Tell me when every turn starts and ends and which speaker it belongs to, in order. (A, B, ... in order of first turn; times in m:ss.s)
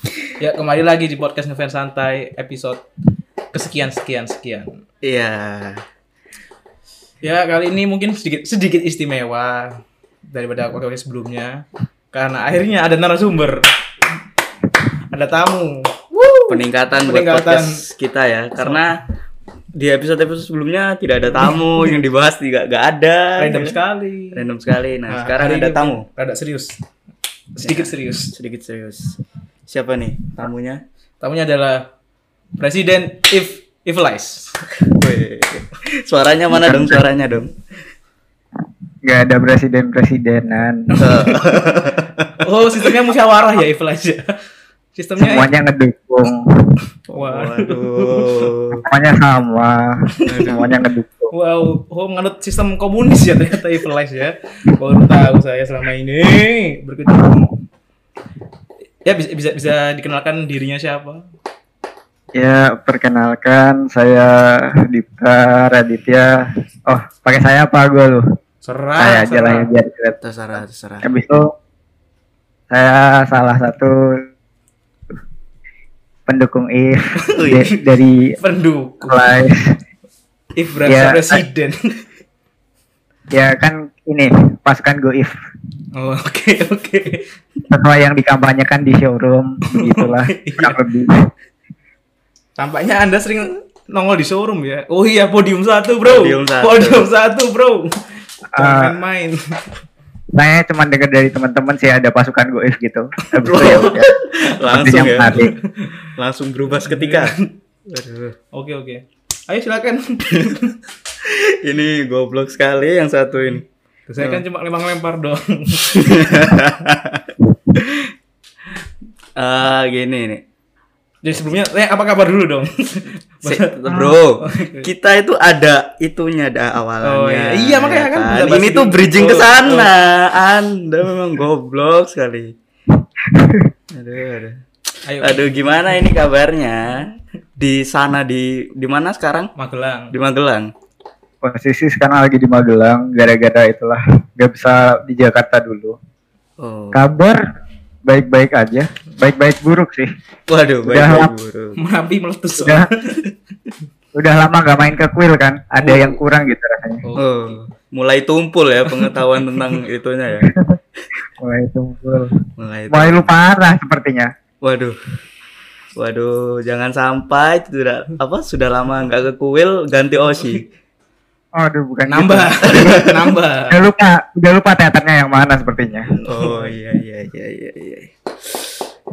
0:00.4-0:02.8 A
0:03.5-0:04.8 A
0:05.0-0:05.8 B
0:07.2-0:13.6 A
0:15.1-0:17.8 A
0:16.5-0:19.0 B
0:19.8-0:23.8 B
0:21.4-0:22.0 A
0:23.4-0:24.4 A
0:24.3-0:26.0 B
0:25.1-0:26.7 A
0:27.6-0:28.4 A
0:27.6-0:30.8 B
0:31.2-0:31.8 A
0:32.6-0:34.6 A
0:34.8-0:37.6 B
0:36.5-0:37.0 C
0:39.0-0:40.8 C
0:40.9-0:41.6 A
0:41.0-0:42.4 B
0:42.4-0:44.3 A
0:45.0-0:45.5 A
0:45.2-0:46.5 C
0:47.1-0:48.8 B
0:47.1-0:48.5 A
0:48.8-0:51.3 C
0:50.3-0:50.7 B
0:51.3-0:57.4 A
0:59.0-1:01.2 A
1:02.4-1:06.4 C
1:06.9-1:08.2 C
1:08.6-1:09.7 A
1:09.0-1:10.2 C
1:10.2-1:11.1 B
1:11.0-1:11.5 C
1:12.7-1:14.0 C
1:16.3-1:18.3 C
1:17.4-1:17.7 B
1:18.4-1:19.3 A
1:19.1-1:19.7 C
1:20.6-1:22.0 A
1:20.9-1:21.4 C
1:23.3-1:25.3 C
1:26.0-1:27.2 A
1:27.7-1:31.2 C
1:29.8-1:30.8 A
1:32.6-1:38.0 A
1:36.0-1:37.1 B
1:38.5-1:39.0 C
1:38.6-1:39.4 A
1:40.4-1:44.1 C
1:43.3-1:44.0 A
1:43.5-1:45.5 B
1:44.6-1:45.5 C
1:45.4-1:46.1 A
1:46.1-1:47.3 B
1:46.9-1:47.5 A
1:47.9-1:48.4 B
1:48.5-1:50.8 A
1:51.2-1:53.6 B
1:54.1-1:56.6 A
1:55.9-1:58.1 B
1:59.4-2:00.4 B
2:01.2-2:04.9 A
2:03.4-2:12.5 B
2:07.0-2:09.9 A
2:13.2-2:13.7 C
2:13.9-2:14.6 B
2:15.1-2:16.0 A
2:15.2-2:19.5 B
2:19.6-2:20.1 A
2:20.1-2:20.7 B
2:21.4-2:26.0 C
2:26.6-2:27.0 B
2:26.9-2:27.4 C
2:28.1-2:30.1 C
2:30.5-2:31.8 B
2:30.8-2:31.3 C
2:31.8-2:33.3 A
2:32.6-2:32.9 C
2:34.2-2:37.0 C
2:35.8-2:36.2 B
2:37.0-2:37.6 A
2:37.2-2:40.5 B
2:38.9-2:39.8 A
2:40.4-2:40.8 C
2:41.4-2:42.4 C
2:42.6-2:43.3 B
2:42.9-2:44.3 C
2:44.6-2:45.0 B
2:46.0-2:50.7 B
2:51.6-2:53.2 C
2:52.1-2:53.8 A
2:52.7-2:53.0 B
2:53.7-2:56.1 C
2:56.2-2:56.7 A
2:56.2-2:58.8 B